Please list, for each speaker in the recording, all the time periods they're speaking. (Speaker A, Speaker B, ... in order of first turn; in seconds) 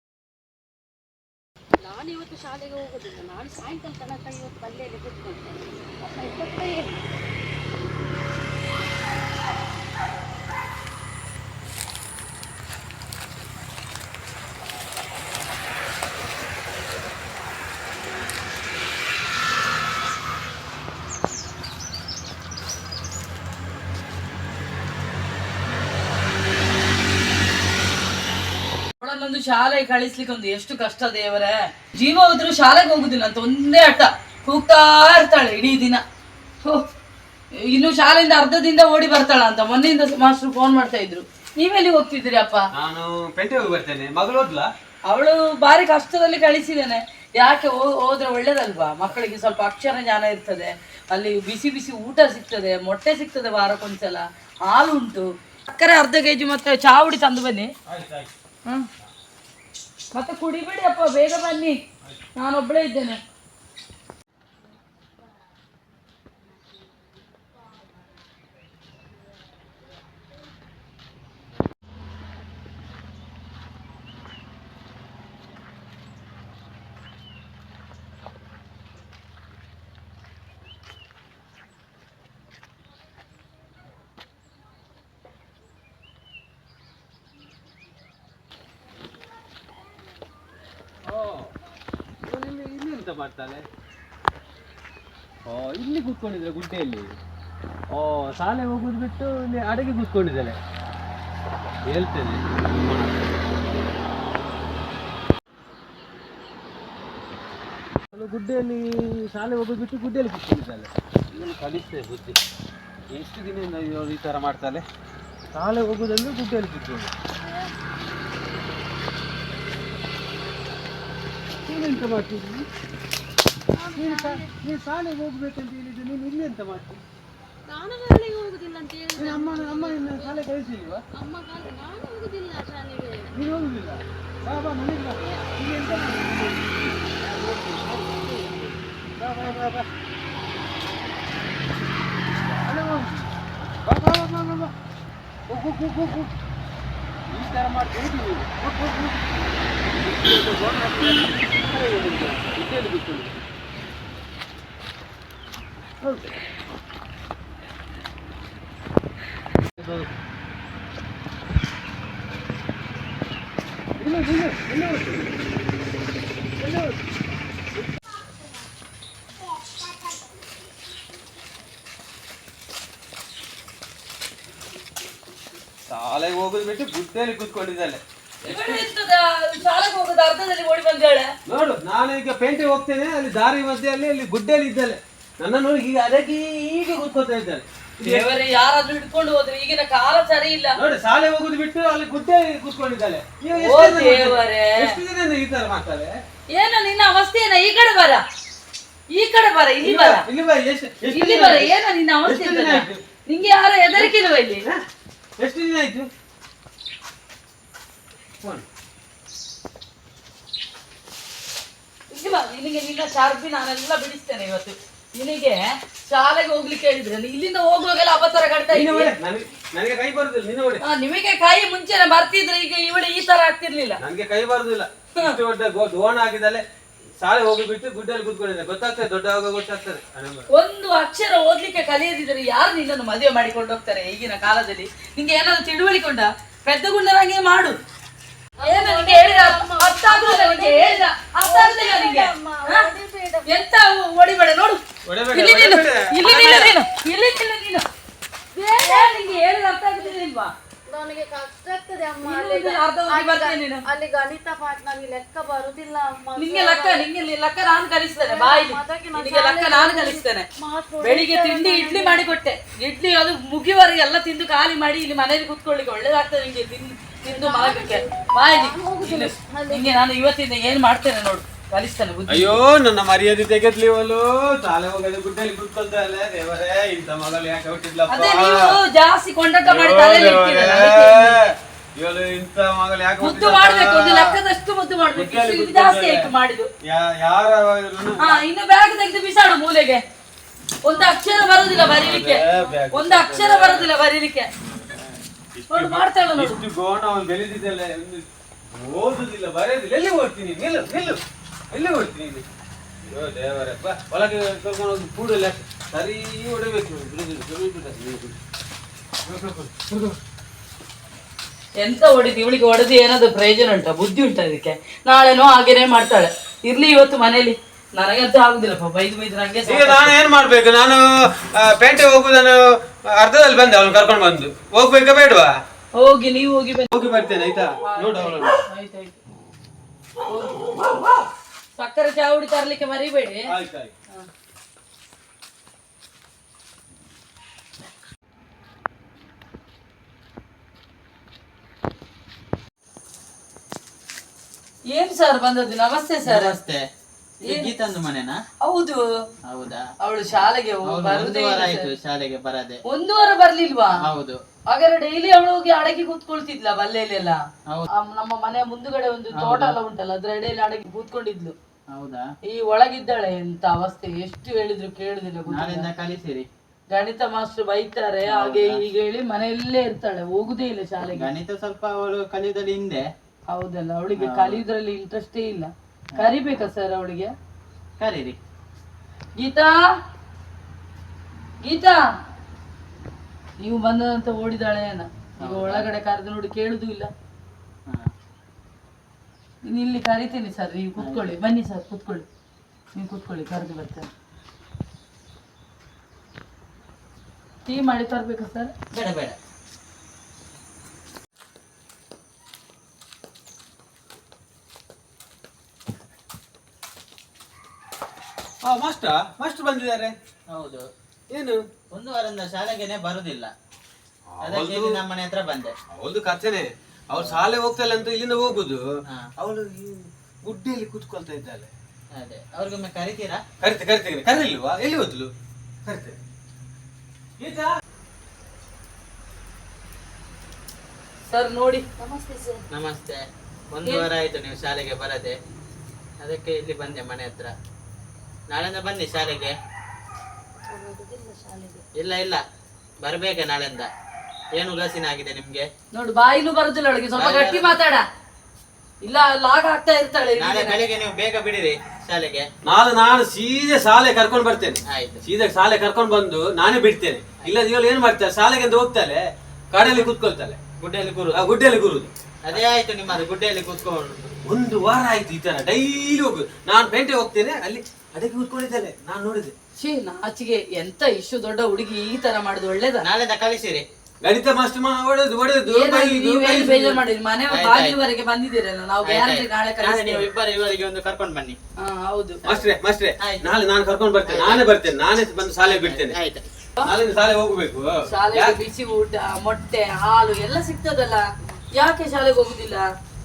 Speaker A: 1.8-7.0, 117.4-117.7, 123.8-124.5, 127.7-130.4, 131.2-133.3, 238.6-243.5, 248.6-249.4, 249.9-250.2, 250.9-257.1, 258.3-262.2, 267.3-270.0
Speaker B: 29.0-36.0, 37.7-42.6, 45.1-57.7, 60.1-61.8, 62.4-63.2, 178.4-181.3, 188.0-190.8, 193.6-194.9, 196.5-198.2, 199.1-200.3, 201.1-204.7, 212.1-219.2, 220.8-224.0, 230.5-237.8, 238.6-242.9, 243.5-244.8, 245.3-247.8, 248.8-250.5, 252.2-253.8, 256.4-260.5, 261.0-272.6, 278.1-281.4, 283.2-286.7, 288.2-290.0, 290.8-294.5, 295.7-296.6, 311.8-320.1, 326.0-326.9, 327.8-329.2, 330.3-330.8, 331.8-333.5, 344.9-346.6, 347.4-347.7, 348.6-349.0, 350.0-351.9, 352.9-354.1, 354.7-357.4, 357.9-361.6, 362.5-365.9, 366.9-371.3, 373.5-377.3, 379.4-379.8, 381.6-382.0, 383.6-387.1, 389.7-392.3, 392.9-394.1, 397.7-398.7, 431.3-432.6, 440.7-441.8, 445.9-448.1, 449.0-450.8, 469.8-473.1, 475.7-480.3, 481.8-482.4, 488.1-491.2, 491.8-492.9
Speaker C: 42.8-44.7, 57.9-58.3, 91.1-91.5, 92.2-93.6, 95.5-97.1, 97.9-100.6, 101.9-103.3, 108.1-112.4, 113.1-114.8, 115.5-117.1, 121.7-122.7, 124.0-127.0, 129.2-131.0, 133.3-139.9, 142.5-144.7, 145.5-146.3, 147.3-149.2, 150.0-153.4, 156.0-156.3, 159.7-160.1, 164.0-165.3, 166.6-167.0, 175.9-178.9, 181.5-188.3, 190.8-196.1, 199.8-201.7, 202.2-203.0, 203.9-204.8, 205.4-206.1, 208.4-208.7, 218.7-220.8, 224.0-226.7, 227.2-230.4, 245.1-246.7, 272.3-278.8, 279.7-284.4, 285.1-286.3, 286.9-288.4, 291.9-293.9, 295.5-302.5, 303.1-308.4, 309.2-310.2, 319.7-325.5, 326.9-328.6, 333.5-333.9, 408.6-410.1, 411.3-411.6, 414.3-415.0, 415.9-418.8, 419.4-421.7, 423.6-425.3, 425.9-426.2, 427.4-427.7, 452.6-460.6, 461.3-462.6, 464.4-469.5, 474.2-477.0, 482.5-486.2, 486.8-488.6
Speaker D: 346.3-346.8, 347.4-348.4, 349.5-349.8, 350.9-352.8, 354.0-354.4, 359.4-359.8, 361.9-362.3, 365.5-366.5, 368.2-368.8, 371.0-373.0, 374.2-374.6, 378.0-378.4, 385.4-385.9, 391.0-391.4, 398.9-399.4, 410.5-410.9, 411.9-413.5, 414.4-415.7, 417.2-417.5, 422.2-423.4, 432.7-435.4, 436.2-437.5, 438.5-439.6, 442.0-442.4, 443.0-443.9, 444.6-445.7, 447.1-447.8, 450.4-452.5, 454.9-455.2, 460.8-461.5, 462.5-464.4, 473.0-473.9, 477.5-478.0, 479.1-481.6, 482.4-483.4, 484.2-484.7, 485.6-486.5